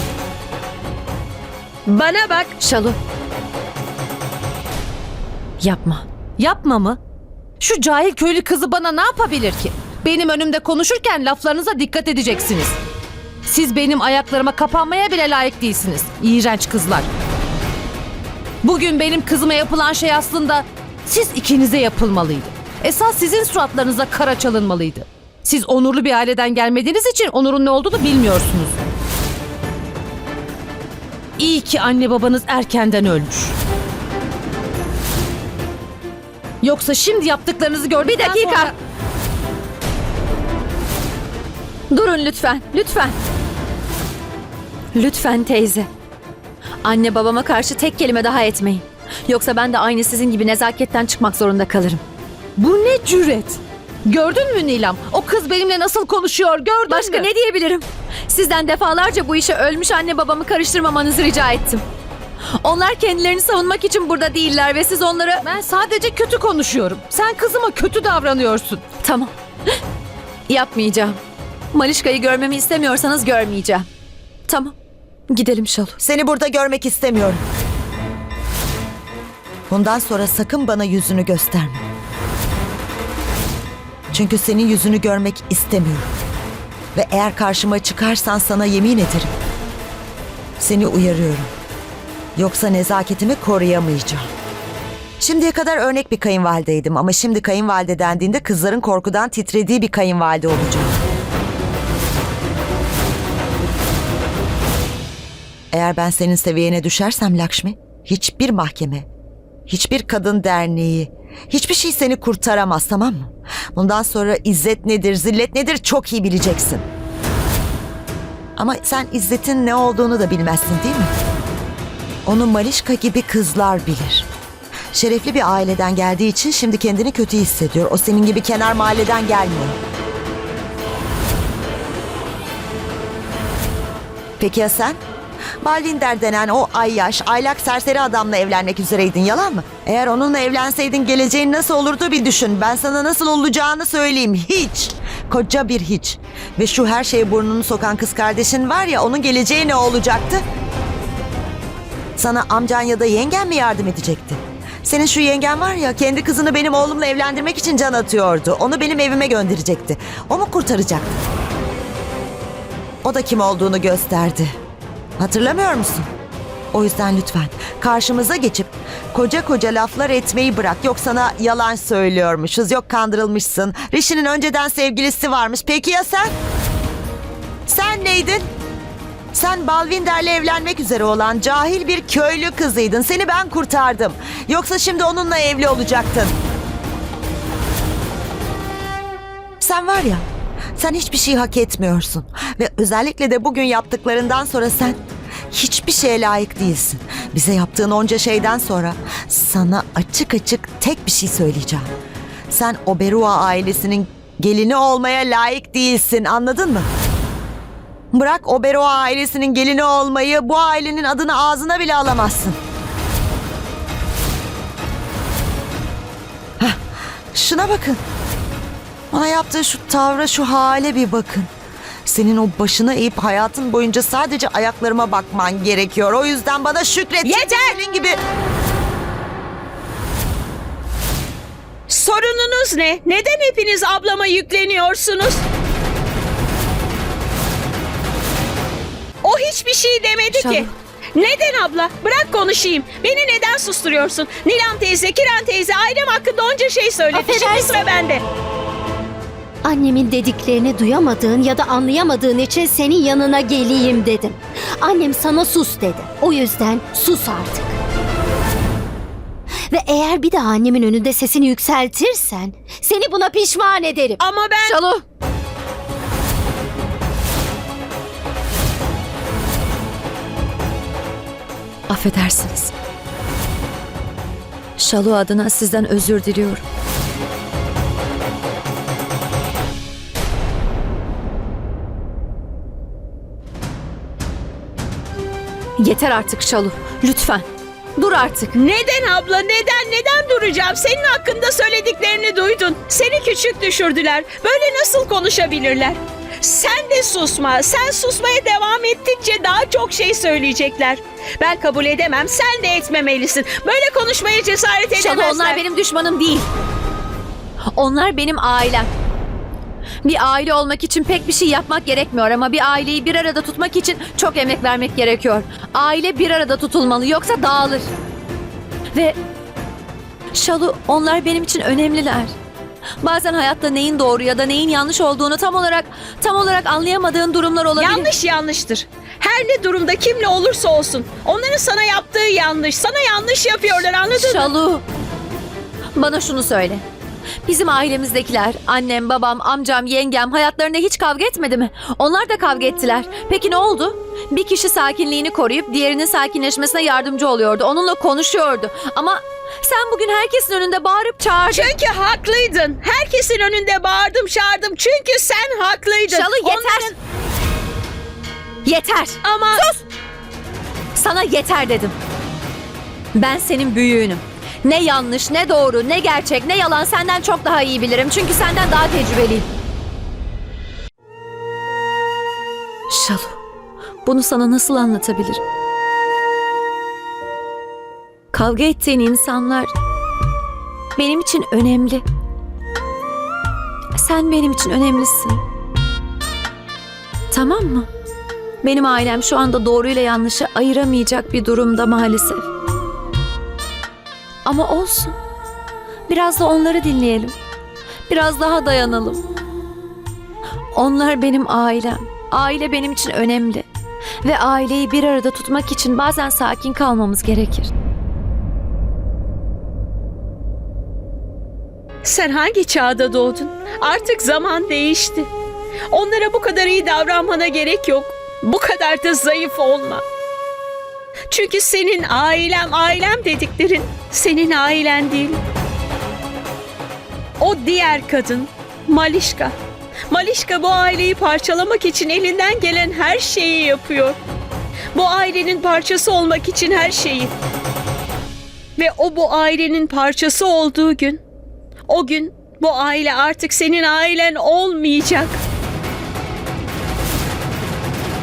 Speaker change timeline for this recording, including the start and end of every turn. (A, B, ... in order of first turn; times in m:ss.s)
0:01.9-0:02.6 A
0:02.6-0:03.0 B
0:05.6-0:06.1 B
0:06.4-0:07.0 C
0:07.6-0:12.8 C
0:13.4-0:17.1 C
0:18.6-0:28.8 C
0:31.4-0:33.6 C
0:36.6-0:38.8 C
0:38.0-0:38.7 B
0:41.9-0:43.2 B
0:45.0-0:45.9 B
0:46.8-0:52.0 B
0:52.6-0:57.3 C
0:56.9-1:01.8 B
1:02.6-1:05.4 B
1:05.4-1:08.8 C
1:09.0-1:09.3 B
1:10.5-1:11.2 B
1:11.7-1:13.9 B
1:14.5-1:14.8 B
1:15.3-1:16.0 B
1:16.0-1:17.4 D
1:19.7-1:21.8 D
1:24.1-1:26.1 D
1:27.0-1:29.3 D
1:30.6-1:31.5 D
1:32.4-1:34.3 D
1:35.2-1:41.0 D
1:45.7-1:49.1 D
1:49.7-1:56.9 D
1:58.6-2:01.1 D
2:02.3-2:04.3 D
2:04.9-2:09.8 D
2:14.4-2:15.0 D
2:15.6-2:30.4 D
2:32.2-2:41.2 D
2:43.0-2:44.5 D
2:45.2-2:46.1 D
2:46.7-2:56.3 D
2:57.7-2:58.5 D
2:59.3-3:06.4 D
3:09.6-3:15.0 D
3:15.5-3:21.9 D
3:22.5-3:26.9 D
3:28.1-3:32.6 D
3:36.6-3:38.0 D
3:39.1-3:41.5 D
3:42.0-3:48.2 D
3:47.2-3:47.8 A
3:51.9-3:55.4 A
3:59.2-4:08.2 A
4:00.3-4:00.7 B
4:07.1-4:07.8 E
4:09.6-4:17.8 E
4:19.7-4:24.2 E
4:24.2-4:24.8 A
4:24.6-4:25.0 B
4:31.9-4:32.7 B
4:34.8-4:36.6 B
4:45.8-4:47.4 B
4:48.0-4:48.6 B
4:48.6-5:05.6 A
5:05.0-5:06.5 B
5:07.7-5:08.9 B
5:10.0-5:17.9 B
5:20.3-5:22.3 B
5:23.0-5:28.1 B
5:27.8-5:34.5 A
5:34.2-5:34.8 B
5:36.0-5:36.8 B
5:37.5-5:51.7 B
5:51.5-5:56.9 A
5:56.1-5:57.0 B
5:58.6-5:59.8 B
5:59.2-5:59.7 A
6:01.0-6:02.0 B
6:03.2-6:09.5 B
6:12.9-6:13.4 B
6:14.0-6:15.4 B
6:18.3-6:19.7 B
6:21.0-6:22.0 B
6:24.0-6:25.4 B
6:27.3-6:27.9 B
6:28.6-6:32.5 B
6:34.4-6:35.2 B
6:36.1-6:37.4 B
6:38.1-6:39.2 B
6:40.7-6:43.7 B
6:44.2-6:47.7 B
6:52.0-6:55.3 A
6:55.9-7:00.0 A
7:01.3-7:05.4 A
7:07.4-7:09.6 A
7:10.1-7:14.2 A
7:14.9-7:17.3 A
7:18.8-7:21.2 A
7:21.9-7:25.4 A